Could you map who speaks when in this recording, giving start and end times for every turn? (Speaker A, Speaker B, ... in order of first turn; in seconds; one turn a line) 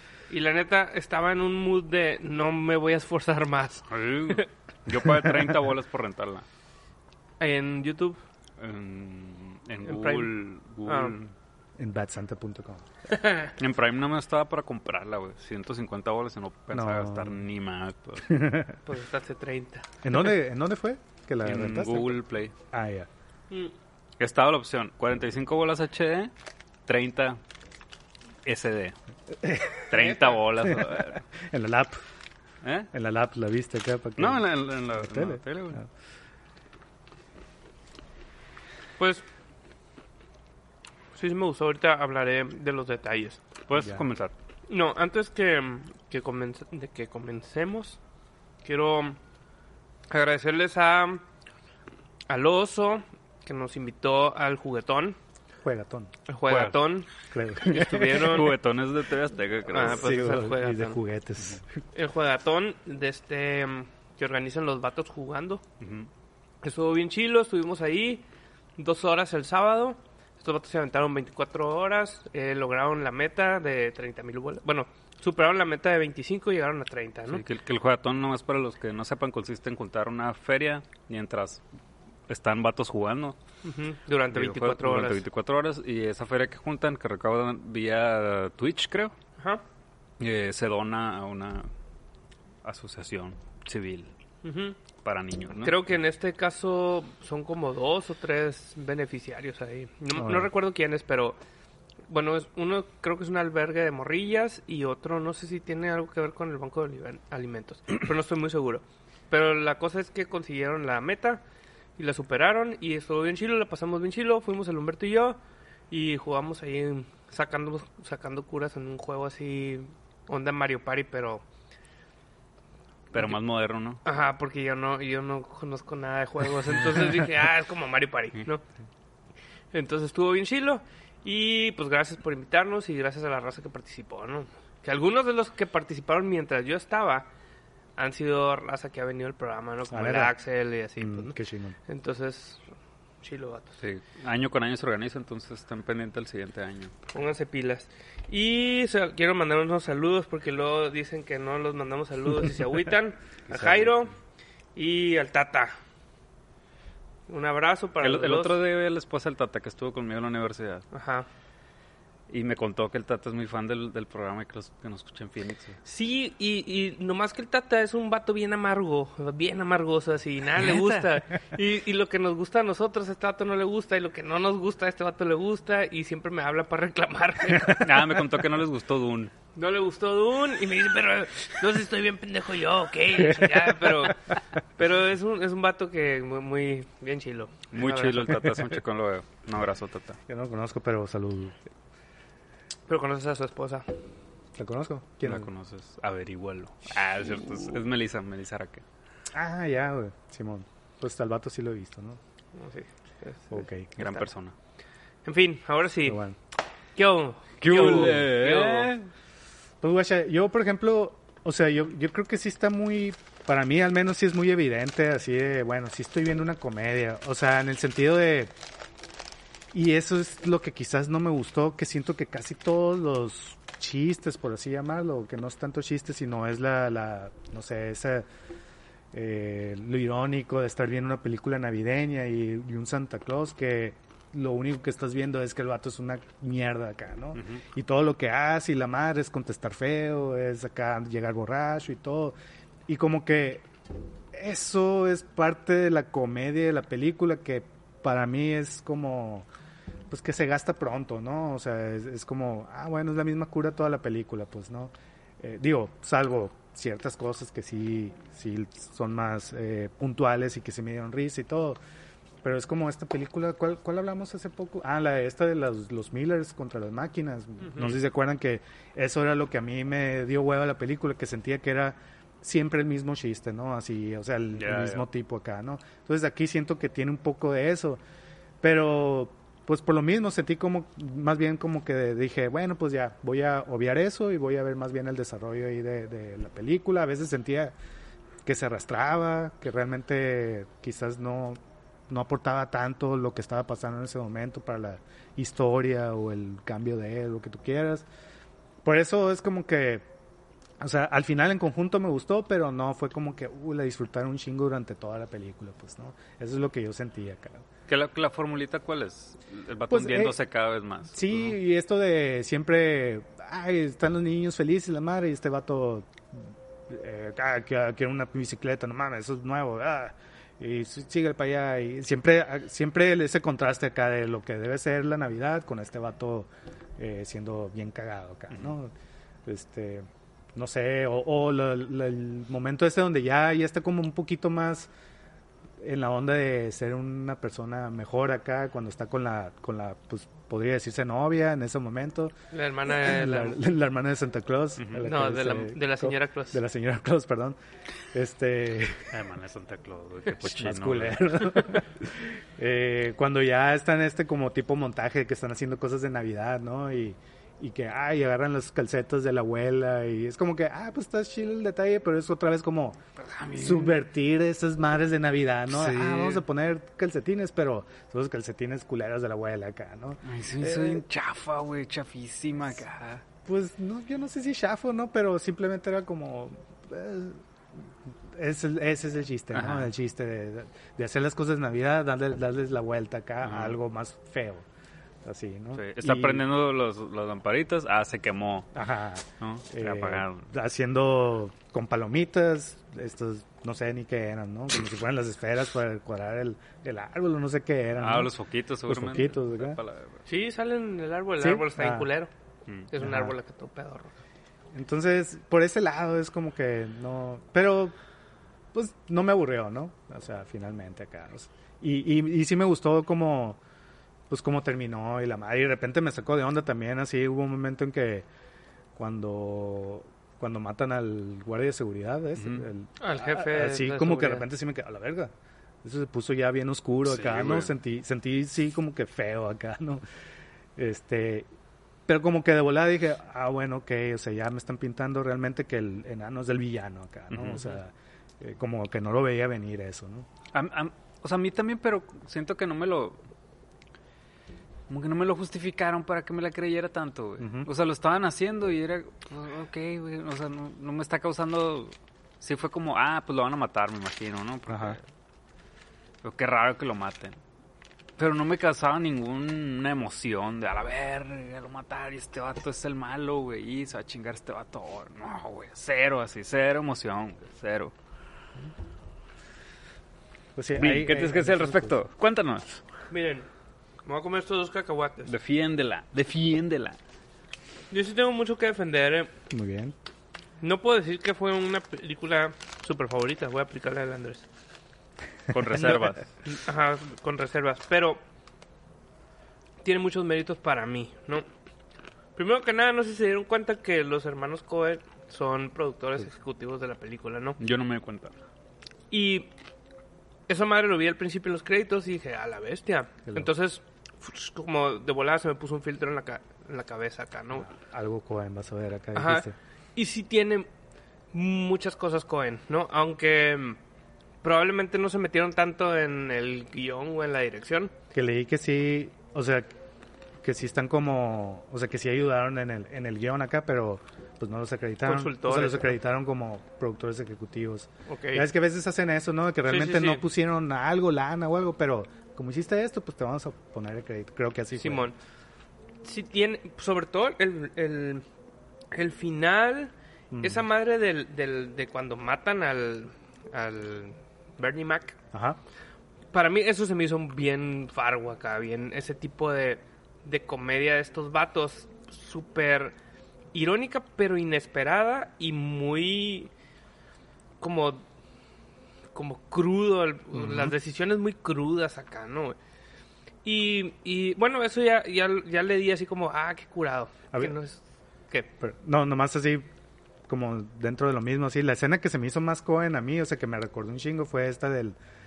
Speaker A: 0.3-4.4
Speaker B: 3.9-6.4
Speaker A: 7.4-8.2
Speaker B: 8.6-11.3
Speaker A: 9.8-10.3
Speaker A: 10.8-11.2
Speaker C: 11.8-12.8
Speaker A: 13.1-13.5
Speaker B: 13.6-18.4
Speaker C: 16.7-17.4
Speaker C: 18.3-18.8
Speaker A: 18.8-20.2
Speaker C: 20.0-23.1
Speaker B: 21.4-22.5
Speaker B: 24.2-26.3
Speaker B: 26.9-27.4
Speaker B: 28.4-28.9
Speaker C: 29.4-32.0
Speaker B: 29.9-31.2
Speaker A: 30.0-30.4
Speaker B: 32.6-32.9
Speaker C: 32.9-35.9
Speaker B: 34.2-35.8
Speaker A: 39.0-39.2
Speaker A: 41.1-43.4
Speaker B: 43.7-44.3
Speaker C: 43.8-44.0
Speaker A: 44.7-48.0
Speaker A: 48.6-49.2
Speaker A: 50.1-51.2
Speaker A: 52.3-55.2
Speaker C: 55.6-56.1
Speaker A: 56.3-57.1
Speaker B: 56.5-56.8
Speaker C: 57.3-58.4
Speaker A: 57.6-58.6
Speaker B: 58.1-60.0
Speaker A: 59.7-61.0
Speaker C: 59.8-61.6
Speaker A: 61.9-65.6
Speaker B: 65.8-66.1
Speaker A: 66.6-68.2
Speaker A: 68.8-77.4
Speaker B: 77.3-81.6
Speaker B: 82.3-83.4
Speaker A: 83.6-85.2
Speaker B: 84.3-89.1
Speaker A: 89.4-89.6
Speaker B: 90.2-91.7
Speaker B: 92.6-94.1
Speaker A: 94.4-94.8
Speaker B: 95.0-95.9
Speaker A: 95.6-101.4
Speaker C: 100.1-100.5
Speaker A: 102.1-111.4
Speaker A: 112.0-121.4
Speaker B: 123.1-124.0
Speaker A: 124.0-128.6
Speaker A: 129.7-137.3
Speaker A: 137.9-141.3
Speaker C: 139.9-140.3
Speaker C: 141.0-141.8
Speaker A: 141.9-142.6
Speaker A: 143.2-143.8
Speaker B: 143.8-146.9
Speaker A: 147.1-154.1
Speaker B: 153.5-154.1
Speaker A: 154.7-155.7
Speaker A: 157.3-158.6
Speaker B: 158.0-160.8
Speaker A: 160.9-161.3
Speaker B: 162.3-165.8
Speaker A: 165.8-178.2
Speaker B: 177.7-179.3
Speaker A: 179.5-188.4
Speaker C: 183.2-184.1
Speaker B: 187.7-190.2
Speaker C: 190.3-191.6
Speaker A: 192.9-193.9
Speaker C: 194.6-195.5
Speaker B: 195.2-198.8
Speaker C: 199.3-202.2
Speaker A: 202.5-204.3
Speaker C: 203.5-203.9
Speaker B: 204.0-204.5
Speaker A: 205.2-206.2
Speaker C: 206.0-206.3
Speaker A: 206.9-208.9
Speaker B: 207.6-209.1
Speaker C: 207.8-208.2
Speaker C: 209.8-218.5
Speaker C: 219.7-228.2
Speaker C: 229.1-242.3
Speaker B: 237.3-237.6
Speaker C: 242.9-243.7
Speaker C: 244.3-249.5
Speaker C: 250.1-261.8
Speaker C: 262.4-278.0
Speaker B: 274.6-275.0
Speaker C: 278.6-287.7
Speaker C: 288.4-298.1
Speaker C: 298.8-300.0
Speaker C: 300.8-307.6
Speaker B: 307.9-311.6
Speaker C: 309.9-310.4
Speaker C: 311.1-328.9
Speaker C: 329.4-334.9
Speaker C: 335.8-342.3
Speaker A: 342.5-343.6
Speaker C: 342.9-347.6
Speaker B: 344.8-345.1
Speaker A: 345.0-346.6
Speaker C: 348.1-349.1
Speaker B: 349.1-351.8
Speaker C: 350.4-363.0
Speaker B: 363.3-363.9
Speaker C: 363.5-370.2
Speaker B: 365.7-366.4
Speaker B: 370.2-373.2
Speaker C: 373.4-377.4
Speaker C: 378.2-384.6
Speaker B: 379.5-379.9
Speaker B: 383.4-383.8
Speaker C: 385.2-386.4
Speaker B: 385.8-388.7
Speaker C: 388.7-398.3
Speaker B: 389.4-390.5
Speaker B: 398.0-400.2
Speaker C: 398.9-399.8
Speaker A: 400.2-402.3
Speaker C: 401.4-402.1
Speaker A: 402.9-404.1
Speaker C: 403.0-403.3
Speaker C: 404.7-407.9
Speaker C: 408.7-413.6
Speaker C: 414.3-418.2
Speaker C: 418.9-425.3
Speaker B: 422.4-422.7
Speaker A: 423.0-424.4
Speaker C: 425.8-430.0
Speaker B: 427.1-427.7
Speaker C: 430.8-431.5
Speaker C: 432.1-440.3
Speaker B: 437.3-437.8
Speaker B: 440.5-443.2
Speaker B: 444.9-455.0
Speaker C: 447.4-447.7
Speaker C: 454.7-455.0
Speaker B: 456.2-457.4
Speaker B: 458.2-467.9
Speaker C: 470.6-472.0
Speaker B: 470.8-472.8
Speaker A: 473.1-473.5
Speaker A: 474.0-475.3
Speaker B: 475.2-477.0
Speaker A: 477.9-479.3
Speaker C: 479.5-479.9
Speaker A: 480.6-484.4
Speaker B: 485.5-486.3
Speaker A: 485.7-488.2
Speaker A: 489.8-491.4
Speaker A: 492.4-497.6
Speaker B: 497.6-498.3
Speaker A: 499.1-499.5
Speaker A: 500.5-507.7
Speaker C: 507.5-509.5
Speaker A: 509.1-510.7
Speaker A: 511.3-513.8
Speaker A: 514.4-517.9
Speaker C: 518.1-519.7
Speaker C: 520.4-535.1
Speaker A: 525.0-525.9
Speaker A: 528.1-528.5
Speaker A: 529.7-530.2
Speaker A: 534.8-535.1
Speaker A: 536.0-538.2
Speaker A: 538.9-545.2
Speaker C: 540.3-540.7
Speaker C: 545.3-545.6
Speaker A: 546.3-552.9
Speaker A: 553.5-556.5
Speaker A: 557.6-558.0
Speaker A: 559.1-562.6
Speaker C: 560.3-560.7
Speaker A: 563.4-568.5
Speaker C: 568.6-569.7
Speaker C: 570.3-575.0